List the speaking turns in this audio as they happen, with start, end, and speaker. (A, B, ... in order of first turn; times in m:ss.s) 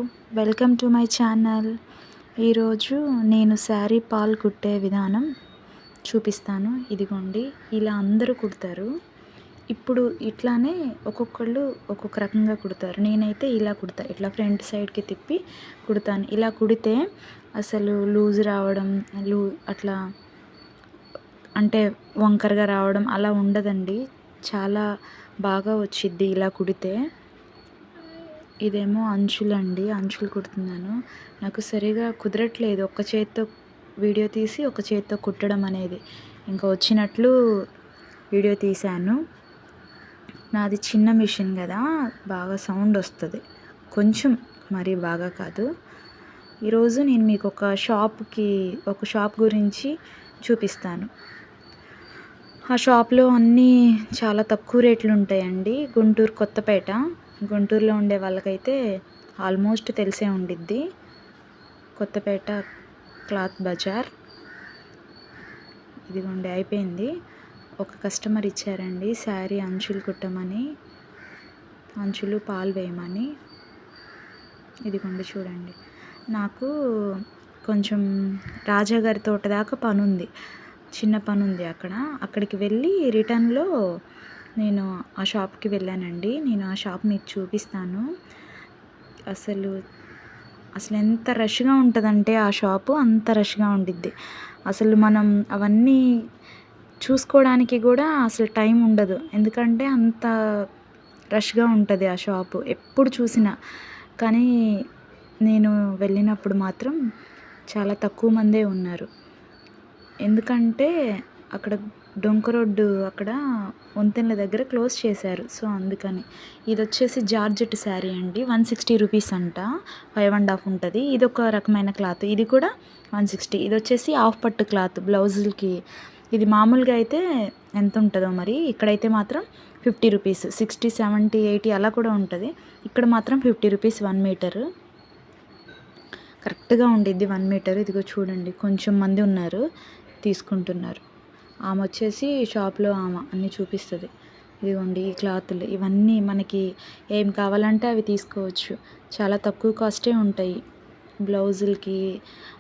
0:00.3-0:01.7 A
0:02.4-0:05.3 A
0:06.1-0:08.9 A
0:09.7-0:17.0 A
0:17.6-0:20.0 A
0:21.6-0:24.8 A
0:25.5-0:27.0 A
0:28.7-0:33.5 A
0:34.0-0:37.3 A
0:38.3-0:39.2 A
0:40.5-0:43.4 A
0:43.9-0:45.7 A
0:46.7-0:49.9 A
0:50.4-0:51.1 A
0:52.7-0:58.8 A
0:59.4-1:00.8 A
1:02.0-1:02.6 A
1:03.3-1:04.1 A
1:06.1-1:07.1 A
1:07.8-1:10.6 A
1:12.0-1:13.3 A
1:14.9-1:15.8 A
1:16.3-1:16.7 A
1:17.7-1:18.0 A
1:18.7-1:20.3 A
1:21.0-1:23.7 A
1:24.6-1:28.0 A
1:29.3-1:29.7 A
1:30.8-1:34.1 A
1:34.7-1:36.0 A
1:37.0-1:40.3 A
1:41.4-1:43.5 A
1:44.2-1:44.5 A
1:45.5-1:47.0 A
1:47.7-1:49.1 A
1:50.2-1:50.9 A
1:51.5-1:53.4 A
1:54.0-2:05.7 A
2:06.3-2:07.2 A
2:07.8-2:14.6 A
2:16.4-2:19.6 A
2:20.2-2:21.0 A
2:21.7-2:24.1 A
2:24.7-2:30.6 A
2:31.3-2:32.0 A